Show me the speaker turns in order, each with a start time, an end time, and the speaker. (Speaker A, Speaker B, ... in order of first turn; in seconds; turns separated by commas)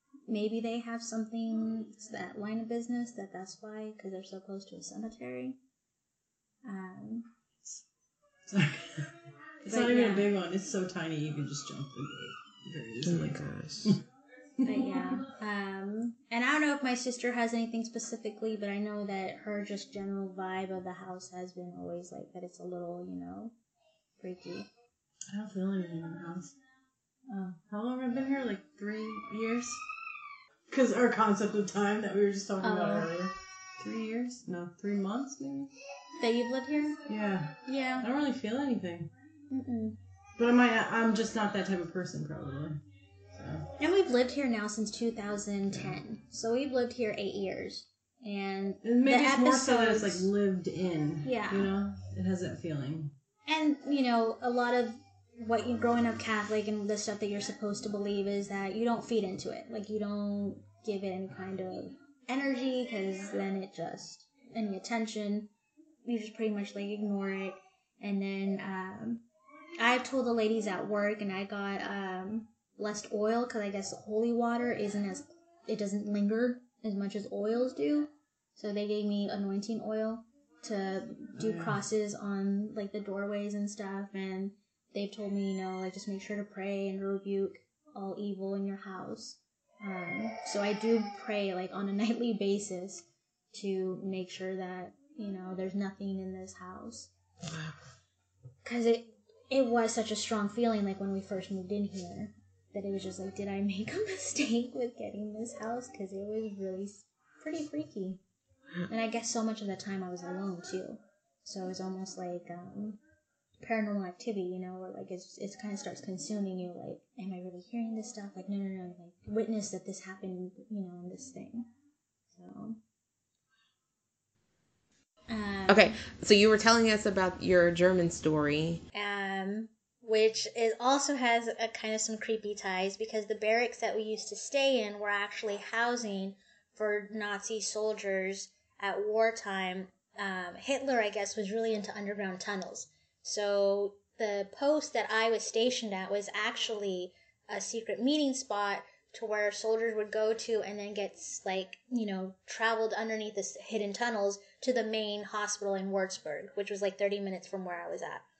Speaker A: 0.3-5.6, Speaker A: 6.6-7.3, Speaker B: 8.4-9.1, Speaker B: 9.6-14.0, Speaker A: 9.7-10.3, Speaker C: 13.0-14.0, Speaker B: 14.6-15.2, Speaker A: 14.6-23.5, Speaker A: 24.2-24.7, Speaker B: 25.3-26.5, Speaker A: 27.3-27.6, Speaker B: 27.7-29.8, Speaker B: 30.7-35.7, Speaker A: 32.6-33.1, Speaker A: 36.2-37.1, Speaker B: 37.1-39.1, Speaker A: 37.6-38.1, Speaker A: 39.5-40.0, Speaker B: 40.4-42.8, Speaker B: 43.3-43.7, Speaker A: 43.8-50.3, Speaker B: 48.8-53.1, Speaker A: 51.2-51.7, Speaker A: 53.5-65.5, Speaker A: 66.0-69.2, Speaker A: 69.8-97.1, Speaker B: 81.4-81.8, Speaker C: 97.4-97.8, Speaker A: 98.6-108.2, Speaker A: 108.9-113.0, Speaker A: 113.6-121.7, Speaker A: 122.3-122.8, Speaker A: 125.3-126.0, Speaker C: 125.7-128.8, Speaker A: 128.9-158.2